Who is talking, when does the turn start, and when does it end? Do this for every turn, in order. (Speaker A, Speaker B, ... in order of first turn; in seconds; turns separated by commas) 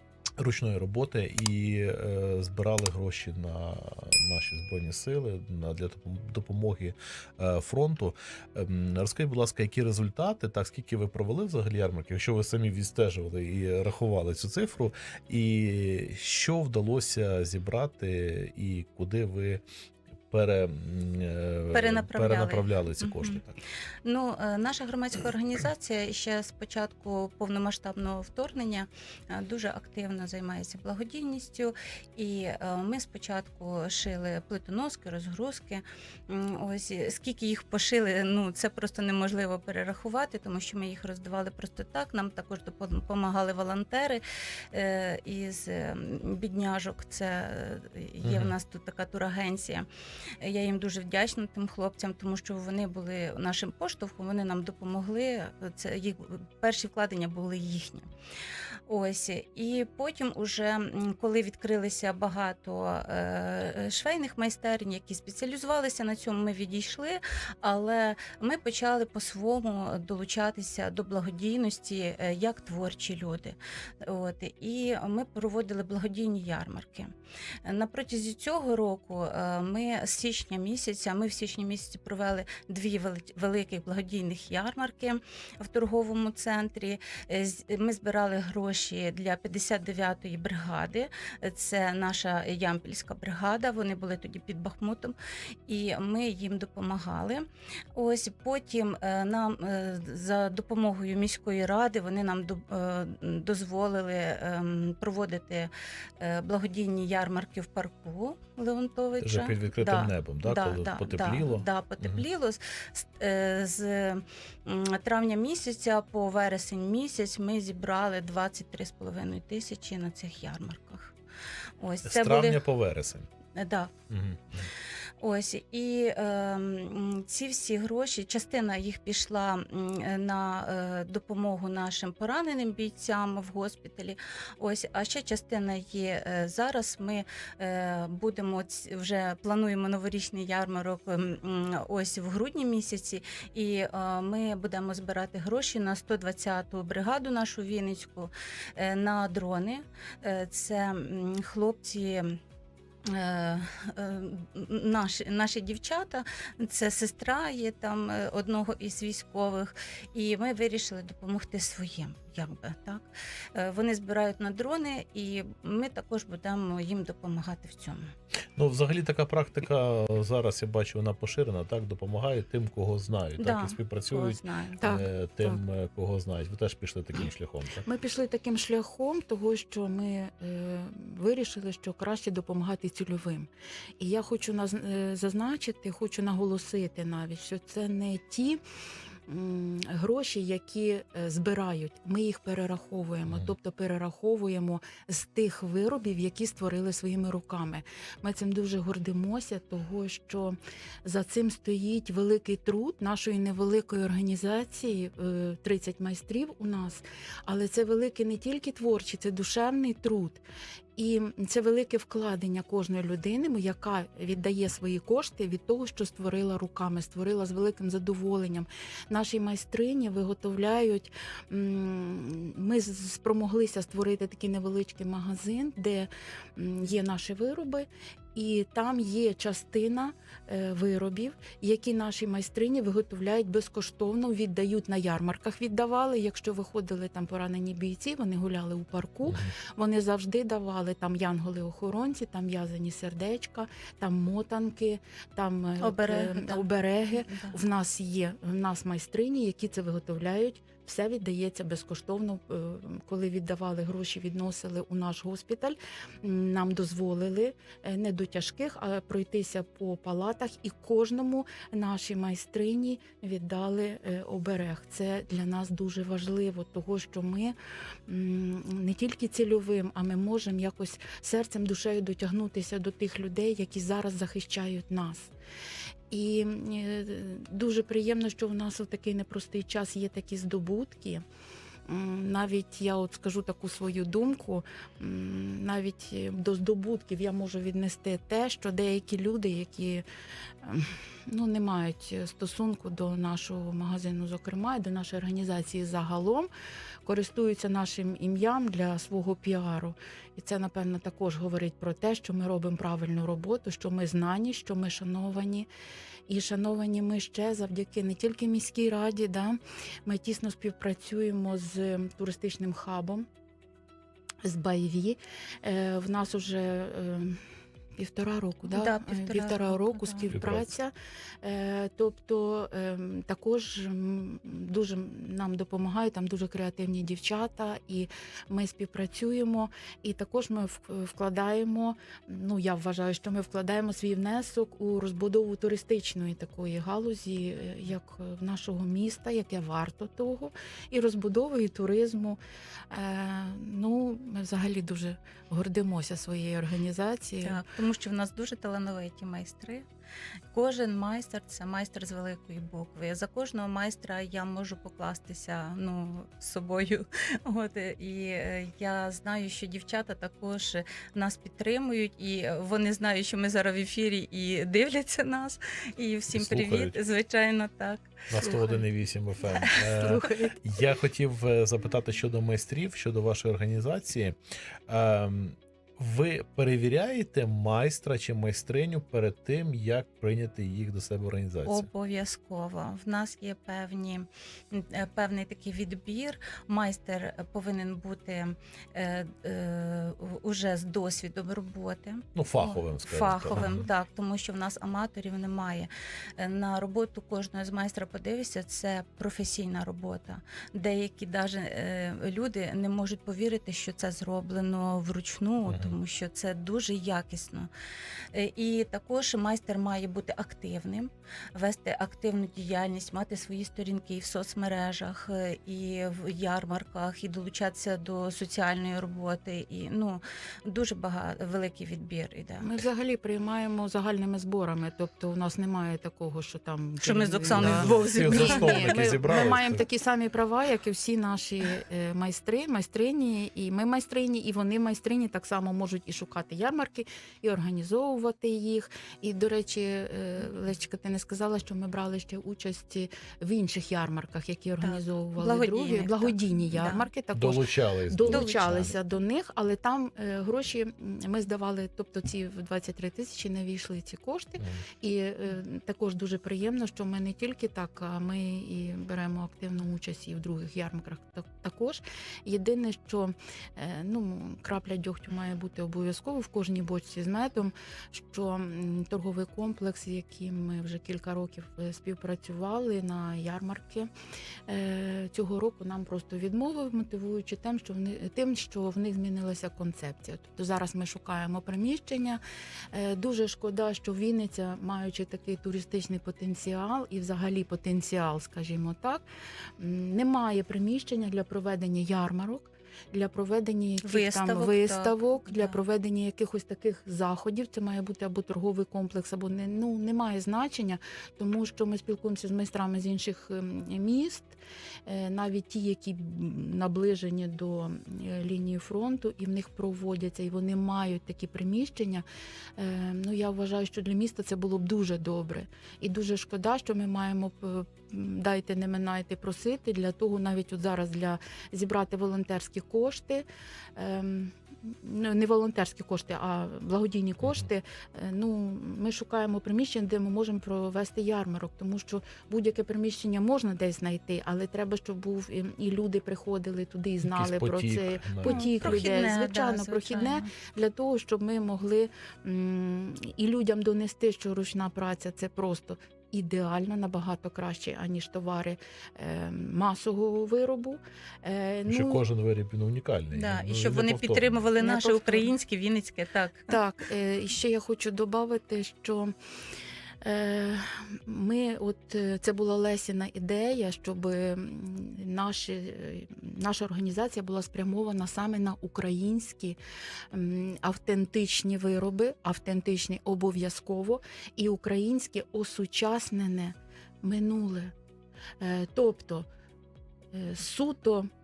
Speaker A: 0.4-19.6, Speaker A: 20.3-23.6, Speaker B: 21.7-23.4, Speaker B: 24.1-49.9, Speaker A: 48.2-48.5, Speaker B: 50.4-58.1, Speaker B: 58.9-77.1, Speaker B: 77.7-95.2, Speaker B: 95.7-121.1, Speaker A: 109.2-112.2, Speaker B: 121.8-122.6, Speaker A: 122.0-123.3, Speaker B: 123.6-123.9, Speaker A: 124.1-124.7, Speaker B: 125.2-152.4, Speaker B: 153.1-168.0, Speaker A: 168.6-177.8, Speaker B: 173.4-174.9, Speaker C: 174.8-175.6, Speaker C: 177.8-183.5, Speaker C: 184.0-188.6, Speaker C: 189.3-210.4, Speaker C: 211.0-267.6, Speaker B: 245.8-247.5, Speaker C: 268.1-275.3, Speaker C: 276.1-281.2, Speaker C: 281.9-290.1, Speaker C: 290.6-296.5, Speaker C: 297.1-305.7, Speaker C: 306.3-313.3, Speaker C: 314.4-317.4, Speaker C: 318.0-342.4, Speaker B: 318.7-320.3, Speaker A: 320.3-320.7, Speaker C: 342.9-347.6, Speaker B: 347.4-349.9, Speaker B: 350.5-368.2, Speaker A: 366.3-367.0, Speaker A: 368.3-374.4, Speaker C: 368.4-368.8, Speaker B: 369.6-370.0, Speaker C: 369.8-370.6, Speaker A: 374.9-381.9, Speaker B: 381.6-407.7, Speaker A: 392.4-393.8, Speaker A: 405.6-406.0, Speaker B: 408.3-422.7, Speaker C: 422.6-474.1, Speaker B: 427.0-429.1, Speaker A: 427.6-429.9, Speaker B: 444.8-447.1, Speaker A: 447.3-448.9, Speaker B: 448.2-448.9, Speaker C: 474.7-482.4, Speaker C: 482.9-489.2, Speaker C: 489.8-512.2, Speaker B: 494.0-495.8, Speaker C: 512.8-523.5, Speaker C: 524.0-552.2, Speaker A: 537.2-539.0, Speaker B: 538.4-540.5, Speaker A: 551.9-554.6, Speaker B: 553.3-556.8, Speaker C: 554.8-555.5, Speaker C: 556.7-559.3, Speaker C: 560.2-569.8, Speaker C: 570.3-577.9, Speaker C: 578.6-579.5, Speaker C: 580.3-581.3